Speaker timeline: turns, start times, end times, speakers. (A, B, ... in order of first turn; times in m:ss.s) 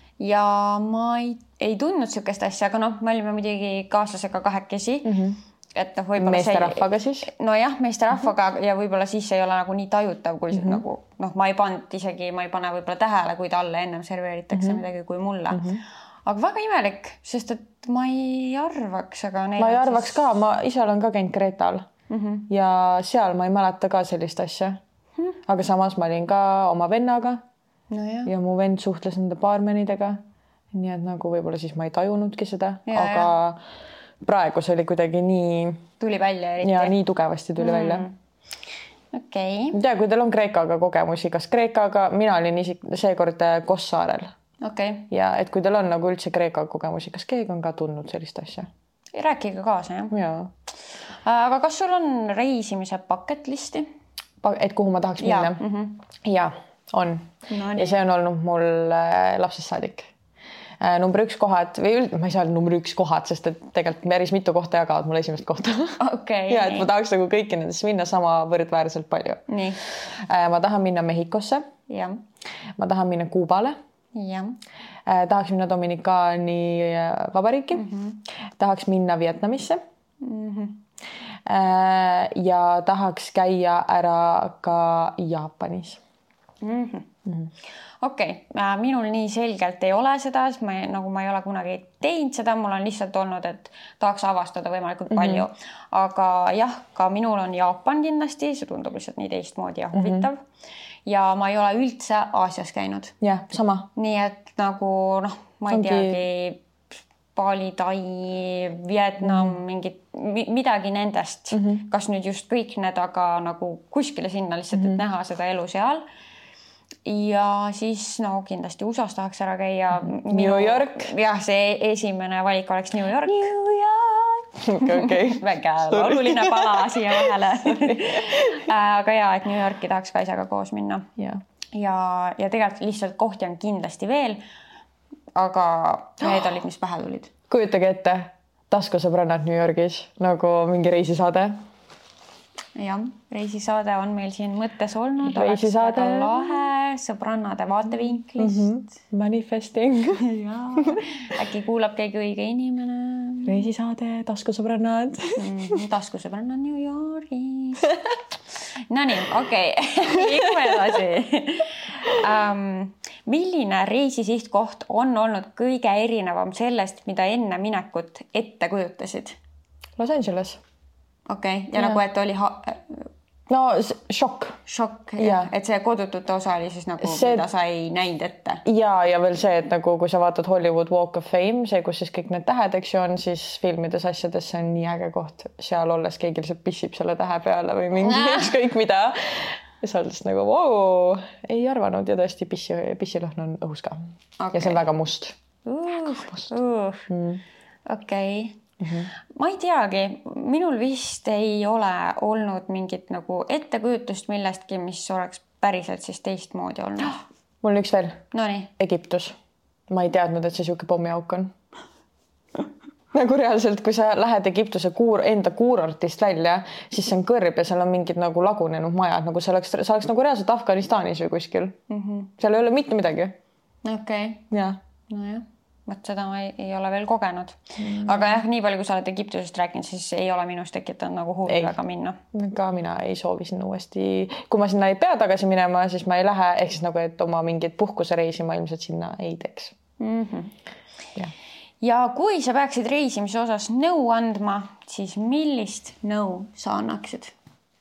0:00.2-0:05.2 A
0:05.0-0:05.4 B
0:05.8-0:20.2 A
0:06.2-0:07.3 B
0:10.5-0:10.8 B
0:14.5-0:14.8 B
0:15.5-0:15.8 B
0:19.6-0:21.9 B
0:22.1-0:22.5 A
0:22.5-0:24.8 B
0:25.5-0:27.4 B
0:27.9-0:28.3 A
0:28.3-0:30.2 B
0:30.7-0:33.6 B
0:32.9-0:33.3 A
0:34.2-0:35.8 B
0:36.0-0:36.9 A
0:36.6-0:38.1 B
0:37.6-0:38.1 A
0:39.1-0:39.8 A
0:39.7-0:44.3 B
0:44.6-0:45.1 A
0:45.1-0:48.7 B
0:49.1-0:50.2 A
0:50.1-0:50.5 B
0:51.2-0:53.9 A
0:54.4-0:55.6 B
0:55.2-0:56.0 A
0:56.2-1:00.1 B
0:57.5-0:58.0 A
1:00.8-1:09.5 B
1:06.0-1:06.9 A
1:09.5-1:09.8 A
1:10.1-1:11.6 B
1:11.9-1:12.2 A
1:12.8-1:13.8 B
1:14.2-1:14.6 A
1:15.1-1:17.9 B
1:17.7-1:18.2 A
1:18.6-1:19.8 B
1:20.2-1:20.8 A
1:21.5-1:26.0 B
1:26.6-1:27.1 A
1:28.0-1:40.4 A
1:35.1-1:35.4 B
1:39.9-1:40.3 B
1:41.1-1:43.2 A
1:43.2-1:43.9 B
1:44.0-1:46.6 A
1:45.7-1:46.2 B
1:47.4-1:56.0 A
1:49.2-1:49.6 B
1:51.5-1:51.9 B
1:54.8-1:55.0 B
1:57.1-2:11.1 A
2:00.0-2:01.1 B
2:03.3-2:08.7 B
2:11.8-2:14.4 A
2:15.4-2:17.3 A
2:16.2-2:16.5 B
2:17.5-2:21.6 B
2:22.8-2:28.7 A
2:25.2-2:26.7 B
2:28.4-2:30.2 B
2:30.1-2:33.7 A
2:30.8-2:31.0 B
2:33.5-2:35.8 B
2:35.4-2:37.9 A
2:37.8-2:38.2 B
2:38.9-2:49.4 A
2:40.2-2:40.8 B
2:50.0-2:50.6 B
2:51.3-2:53.0 A
2:51.8-2:52.0 B
2:53.5-2:54.6 B
2:54.7-2:58.6 A
2:55.2-2:55.5 B
2:57.0-2:57.4 B
2:58.6-3:14.0 B
3:08.0-3:08.5 A
3:14.4-3:14.8 A
3:14.5-3:15.4 B
3:15.7-3:17.1 A
3:17.1-3:17.4 B
3:17.9-3:18.6 A
3:18.8-3:19.1 B
3:19.3-3:27.2 A
3:27.6-3:28.2 B
3:28.3-3:28.7 A
3:28.8-3:29.4 B
3:29.9-3:31.5 B
3:33.1-3:41.8 B
3:41.9-3:42.3 A
3:42.4-3:43.4 B
3:43.8-3:44.4 A
3:44.5-3:44.8 B
3:45.1-3:52.2 A
3:47.8-3:48.3 B
3:51.5-3:51.7 B
3:52.3-3:59.8 B
4:00.0-4:00.5 A
4:01.8-4:07.3 A